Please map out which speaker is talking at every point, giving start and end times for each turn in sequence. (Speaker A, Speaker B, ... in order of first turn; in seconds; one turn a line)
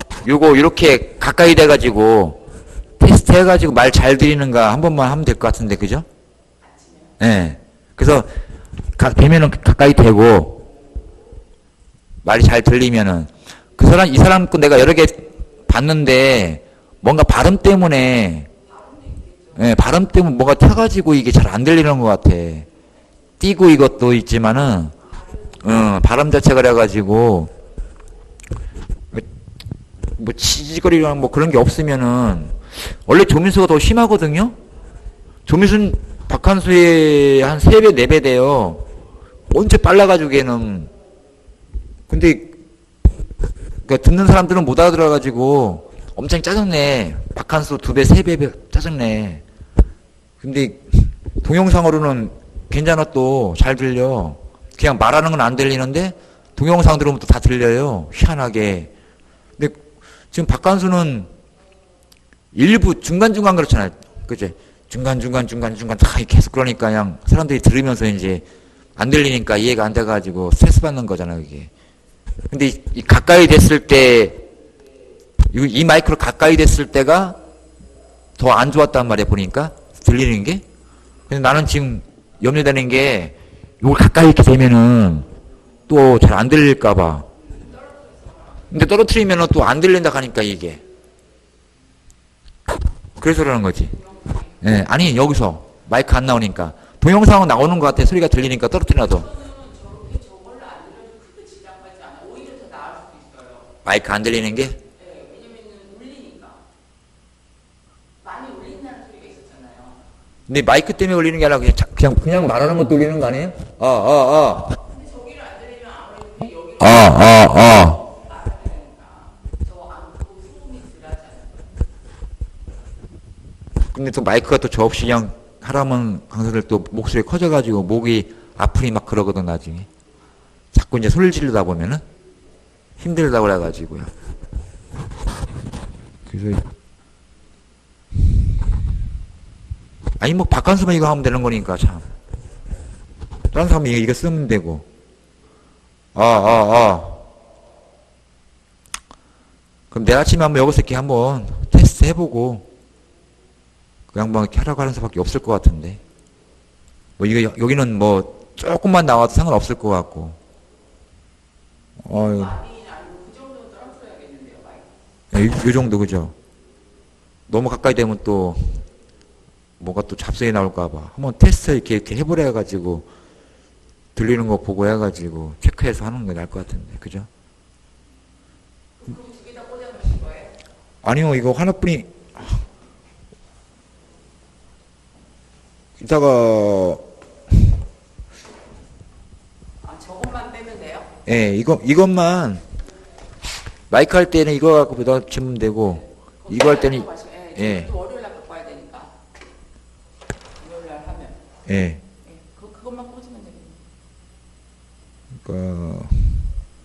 Speaker A: 0.2-2.4
Speaker A: 3.0-6.0
Speaker B: 6.6-7.1
Speaker A: 7.2-8.4
Speaker A: 8.9-10.6
Speaker A: 12.2-18.5
Speaker B: 18.6-19.8
Speaker A: 19.5-22.7
Speaker A: 23.4-24.9
Speaker A: 25.6-27.5
Speaker A: 30.2-34.6
Speaker A: 35.5-38.9
Speaker A: 39.5-40.9
Speaker A: 42.1-42.6
Speaker A: 43.8-49.4
Speaker A: 50.4-58.9
Speaker A: 60.3-61.3
Speaker A: 62.5-68.4
Speaker A: 69.0-71.7
Speaker A: 72.5-74.4
Speaker A: 75.5-77.4
Speaker A: 78.4-80.6
Speaker A: 81.3-85.3
Speaker A: 85.9-87.3
Speaker B: 87.6-88.7
Speaker A: 88.7-90.8
Speaker A: 93.2-94.0
Speaker B: 93.9-94.7
Speaker A: 94.6-99.3
Speaker B: 99.0-103.7
Speaker A: 103.8-104.8
Speaker B: 105.0-106.6
Speaker B: 108.2-110.0
Speaker A: 110.5-114.8
Speaker B: 114.8-121.6
Speaker A: 116.8-118.0
Speaker A: 123.9-129.9
Speaker A: 130.7-132.0
Speaker A: 133.0-134.1
Speaker A: 136.3-136.6
Speaker A: 140.2-142.1
Speaker A: 143.5-144.8
Speaker A: 146.1-147.3
Speaker A: 149.9-152.7
Speaker A: 154.1-156.0
Speaker A: 157.2-160.4
Speaker A: 162.0-162.6
Speaker B: 162.1-164.9
Speaker A: 165.3-166.3
Speaker A: 167.5-168.8
Speaker A: 169.8-173.1
Speaker A: 174.2-177.3
Speaker B: 179.0-180.6
Speaker A: 181.0-182.6
Speaker A: 186.0-187.0
Speaker B: 189.8-191.1
Speaker A: 191.2-192.6
Speaker A: 193.9-197.9
Speaker B: 196.4-199.1
Speaker B: 200.6-201.4
Speaker A: 201.7-202.0
Speaker B: 202.2-203.8
Speaker A: 205.4-206.4